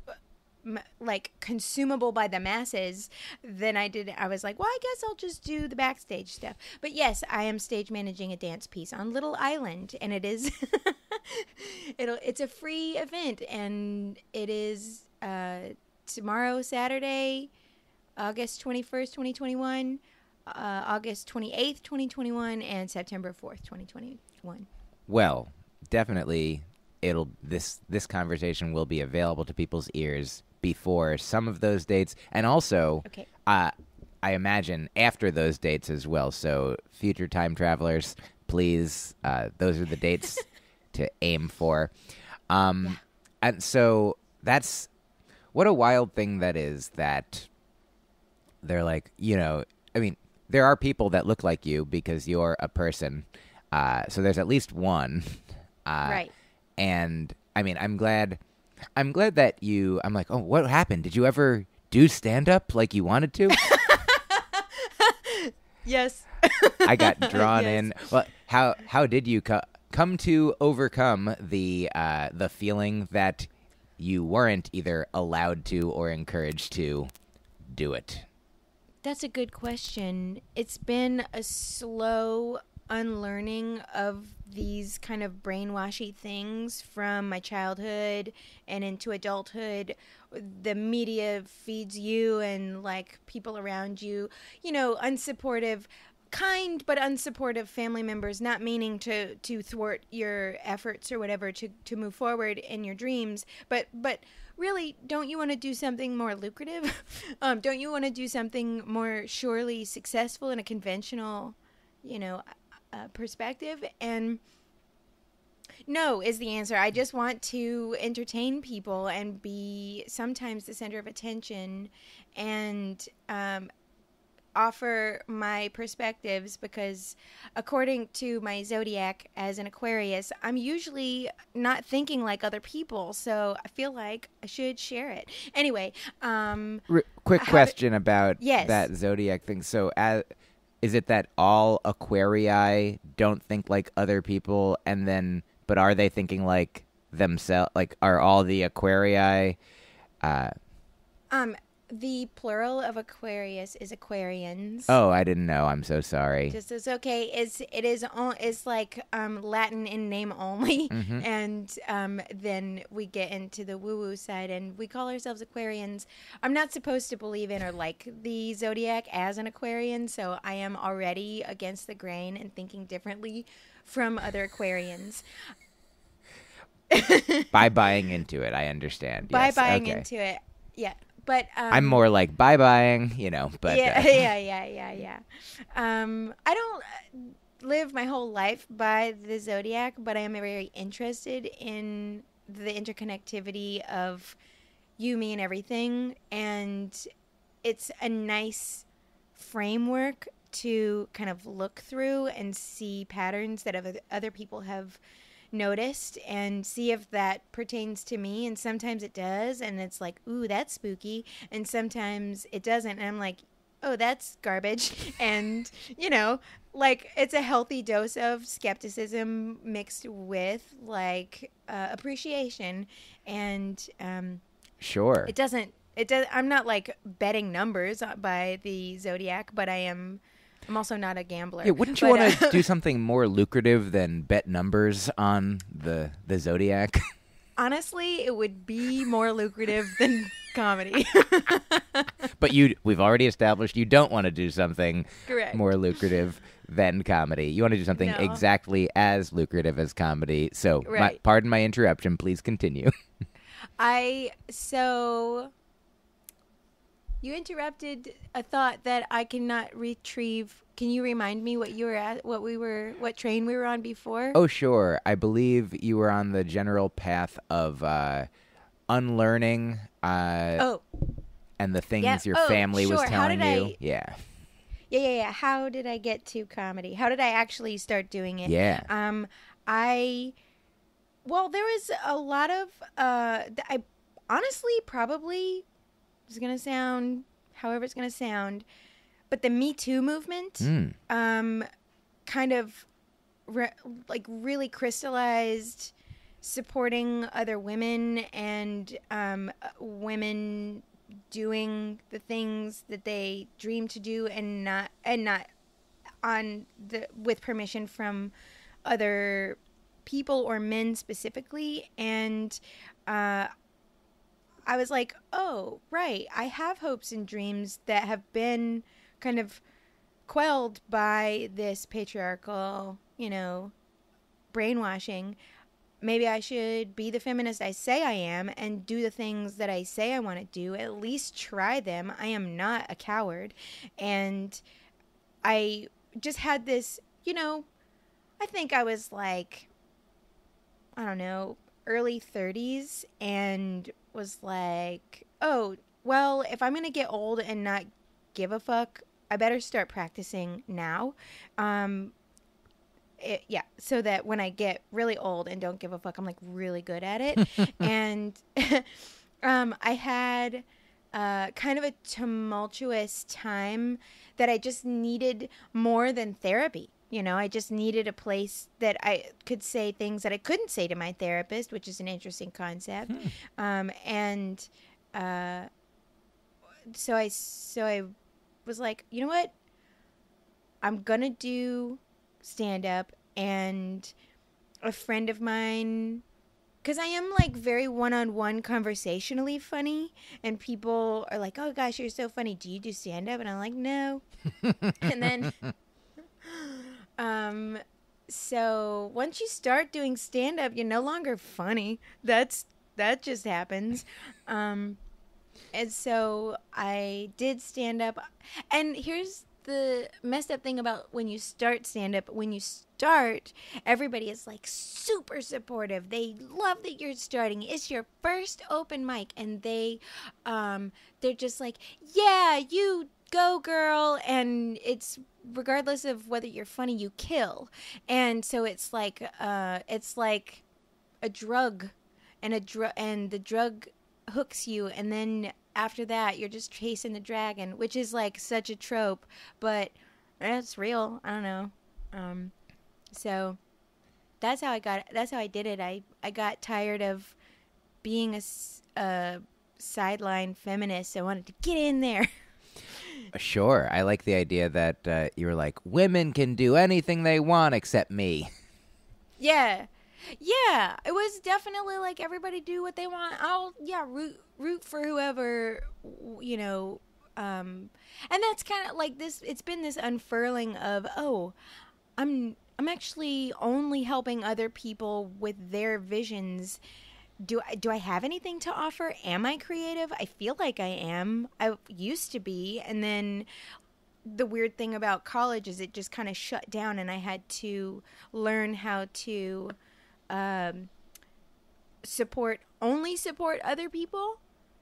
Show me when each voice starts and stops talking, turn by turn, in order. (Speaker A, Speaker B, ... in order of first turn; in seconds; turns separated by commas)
Speaker A: 0.6-17.5, Speaker A: 18.2-24.7, Speaker B: 25.1-41.9, Speaker B: 42.5-44.9, Speaker B: 45.5-47.5, Speaker B: 48.6-56.2, Speaker A: 56.0-56.3, Speaker B: 56.8-58.4, Speaker B: 59.0-63.7, Speaker A: 63.6-67.9, Speaker B: 66.8-77.1, Speaker B: 77.7-78.3, Speaker A: 79.0-114.4, Speaker A: 115.9-123.7, Speaker A: 124.5-136.8, Speaker B: 136.9-140.2, Speaker A: 137.4-137.7, Speaker A: 138.4-138.9, Speaker B: 140.8-149.6, Speaker B: 150.2-150.5, Speaker A: 151.3-154.9, Speaker B: 154.9-156.6, Speaker A: 156.5-175.2, Speaker B: 160.9-161.2, Speaker A: 176.9-177.7, Speaker B: 177.5-180.1, Speaker A: 179.2-182.0, Speaker B: 181.7-184.2, Speaker A: 183.7-194.4, Speaker A: 195.0-197.1, Speaker A: 197.6-205.0, Speaker A: 205.5-224.4, Speaker B: 224.8-225.3, Speaker A: 225.2-232.6, Speaker B: 231.6-237.1, Speaker A: 237.6-242.3, Speaker B: 242.3-252.9, Speaker A: 245.3-245.6, Speaker A: 247.9-248.4, Speaker A: 250.8-251.2, Speaker A: 253.8-255.5, Speaker A: 257.2-264.4, Speaker B: 264.3-268.3, Speaker B: 268.9-270.6, Speaker A: 270.6-270.8, Speaker B: 271.6-274.2, Speaker A: 272.0-273.8, Speaker A: 274.9-280.3, Speaker B: 278.4-278.9, Speaker A: 281.2-285.6, Speaker A: 286.3-288.6, Speaker A: 289.3-291.6, Speaker B: 290.6-290.9, Speaker A: 292.2-292.9, Speaker A: 293.5-305.5, Speaker A: 306.2-308.3, Speaker A: 308.8-313.5, Speaker A: 314.6-319.6, Speaker A: 320.3-323.7, Speaker A: 324.5-325.4, Speaker A: 326.0-334.6, Speaker A: 335.4-337.6, Speaker A: 338.4-339.7, Speaker A: 341.0-352.1, Speaker A: 353.2-375.7, Speaker A: 376.9-378.1, Speaker A: 378.6-379.5, Speaker A: 380.8-384.1, Speaker A: 384.8-386.2, Speaker A: 386.8-394.2, Speaker A: 394.9-395.6, Speaker A: 396.4-405.0, Speaker A: 405.7-430.6, Speaker A: 431.2-442.5, Speaker A: 443.1-443.6, Speaker A: 444.4-447.4, Speaker A: 448.0-452.3, Speaker A: 453.0-453.3, Speaker B: 453.3-458.5, Speaker A: 459.4-471.5, Speaker A: 472.2-476.8, Speaker A: 477.4-483.5, Speaker A: 484.2-489.8, Speaker A: 490.3-490.9, Speaker A: 492.0-494.4